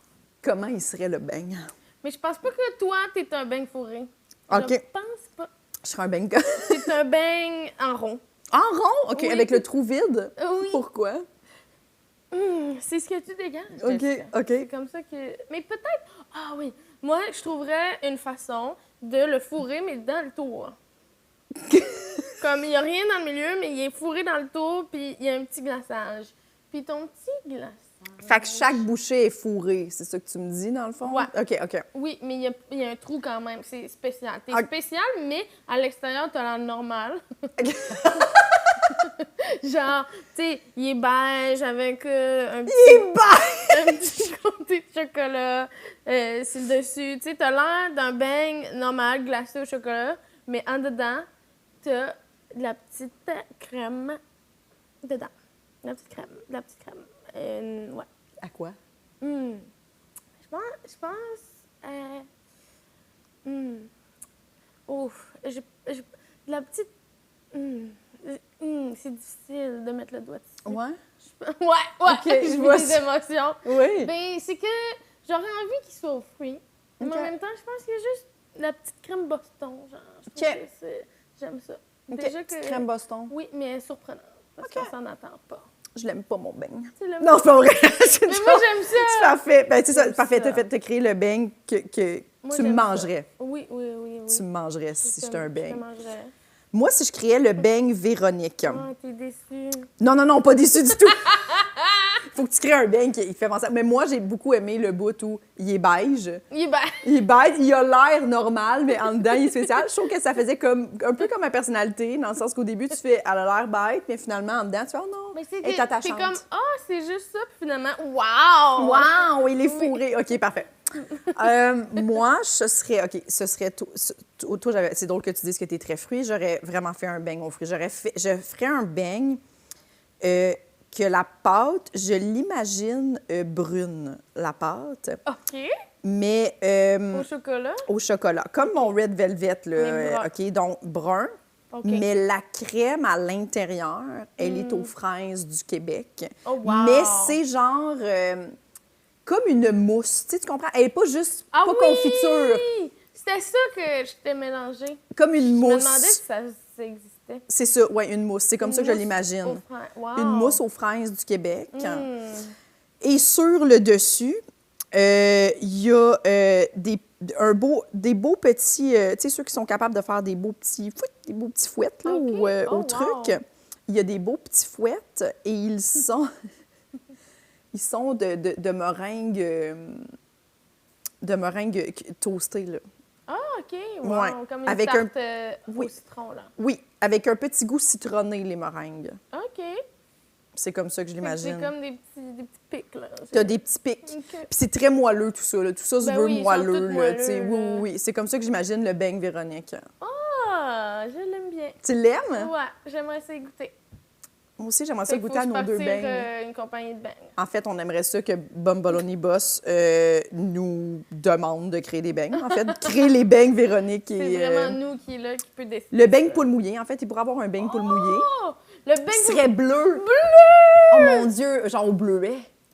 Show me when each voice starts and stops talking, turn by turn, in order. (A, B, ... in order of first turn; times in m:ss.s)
0:00.4-0:01.7 A
0:02.0-0:05.5 B
0:04.5-0:04.8 A
0:05.8-0:06.9 A
0:06.6-0:08.2 B
0:08.5-0:11.3 A
0:09.1-0:09.6 B
0:10.4-0:10.8 B
0:12.3-0:20.8 B
0:13.8-0:14.7 A
0:21.7-0:22.2 A
0:22.4-0:28.8 B
0:28.2-0:31.8 A
0:31.9-0:37.2 B
0:37.6-0:38.7 A
0:39.0-0:43.1 B
0:42.7-0:43.9 A
0:43.7-0:51.3 B
0:51.8-0:54.2 B
0:55.0-0:55.3 B
0:55.8-0:58.1 B
0:58.4-0:58.8 A
0:59.2-0:59.7 B
1:00.4-1:02.3 B
1:03.4-1:03.9 B
1:04.9-1:06.9 B
1:07.5-1:10.8 B
1:10.6-1:11.0 A
1:11.4-1:25.6 B
1:12.1-1:13.0 A
1:13.6-1:14.1 A
1:17.0-1:17.3 A
1:20.3-1:20.6 A
1:22.1-1:23.3 A
1:24.6-1:24.9 A
1:26.0-1:33.3 A
1:27.0-1:27.4 B
1:28.3-1:29.4 B
1:29.9-1:30.6 B
1:32.4-1:34.4 B
1:34.3-1:35.8 A
1:35.0-1:36.3 B
1:36.7-1:38.8 A
1:38.6-1:39.9 B
1:40.0-1:41.3 A
1:41.3-1:41.9 B
1:42.3-1:46.4 A
1:46.5-1:47.0 B
1:47.0-1:56.4 A
1:55.4-2:00.0 B
1:58.8-2:00.7 A
2:01.3-2:09.4 A
2:10.2-2:15.2 A
2:15.3-2:15.7 B
2:16.0-2:17.3 A
2:17.1-2:17.8 B
2:17.9-2:21.3 A
2:19.8-2:20.3 B
2:21.7-2:22.0 B
2:21.8-2:28.5 A
2:24.4-2:24.9 B
2:26.5-2:27.4 B
2:29.3-2:32.7 A
2:31.5-2:37.4 B
2:35.2-2:36.2 A
2:37.5-2:39.6 A
2:38.6-2:40.6 B
2:40.2-2:42.1 A
2:41.7-2:42.5 B
2:43.0-2:44.4 A
2:44.9-2:56.3 A
2:52.1-2:53.4 B
2:57.7-3:00.1 A
3:01.2-3:02.8 A
3:03.3-3:06.5 B
3:04.0-3:05.1 A
3:06.6-3:09.2 A
3:09.3-3:09.8 B
3:10.6-3:11.7 A
3:11.2-3:13.6 B
3:13.3-3:19.8 A
3:14.1-3:14.5 B
3:16.0-3:17.8 B
3:20.0-3:21.8 B
3:21.8-3:22.5 A
3:22.4-3:23.8 B
3:24.6-3:26.3 A
3:25.1-3:27.3 B
3:27.4-3:34.8 A
3:32.5-3:32.9 B
3:34.2-3:36.5 B
3:35.9-3:38.3 A
3:37.6-3:41.3 B
3:39.1-3:40.0 A
3:40.9-3:42.5 A